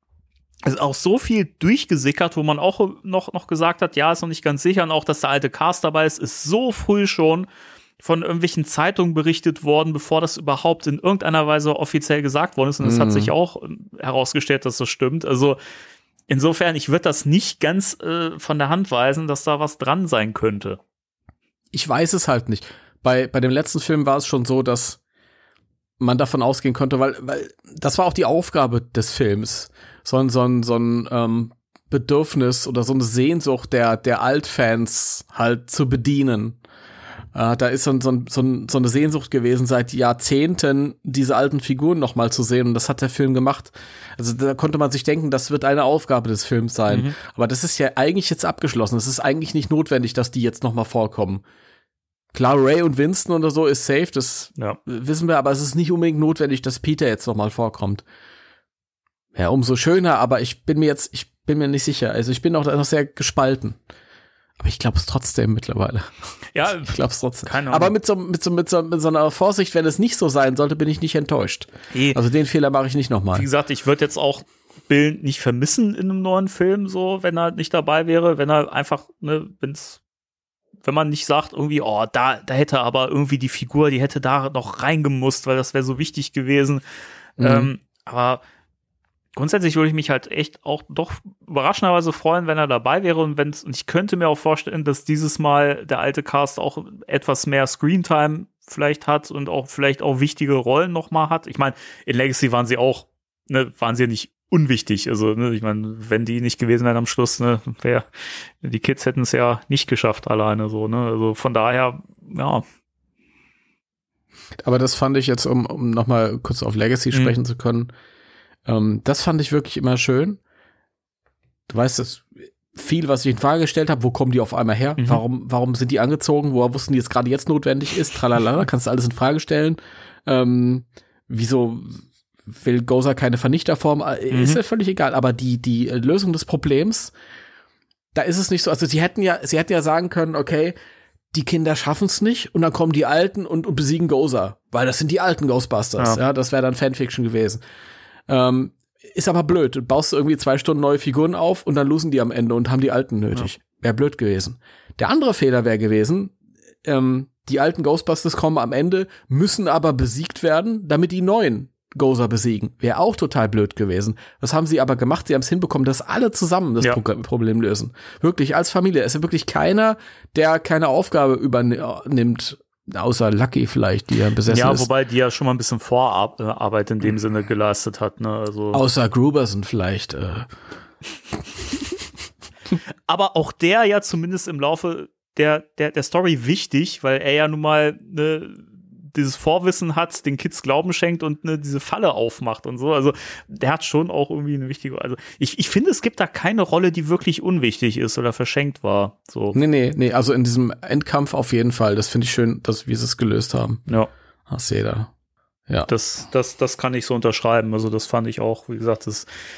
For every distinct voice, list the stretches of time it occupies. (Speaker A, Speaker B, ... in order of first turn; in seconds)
Speaker A: 0.6-7.5, 8.0-15.6, 16.3-20.8, 46.9-47.1, 66.5-66.9, 67.4-67.9, 71.9-72.2, 73.3-80.0, 80.8-86.8, 87.4-88.4, 89.3-112.6, 125.0-125.2, 134.3-134.6, 174.5-178.8, 183.1-199.6, 205.8-209.3
Speaker B: 12.8-13.3, 21.7-25.0, 26.0-36.6, 37.3-51.4, 52.3-58.0, 59.3-63.8, 64.6-66.1, 66.7-73.5, 87.4-87.7, 114.6-117.9, 118.7-120.4, 121.7-137.1, 138.1-140.8, 141.3-147.6, 148.3-174.9, 178.7-180.5, 199.5-203.8, 204.5-205.1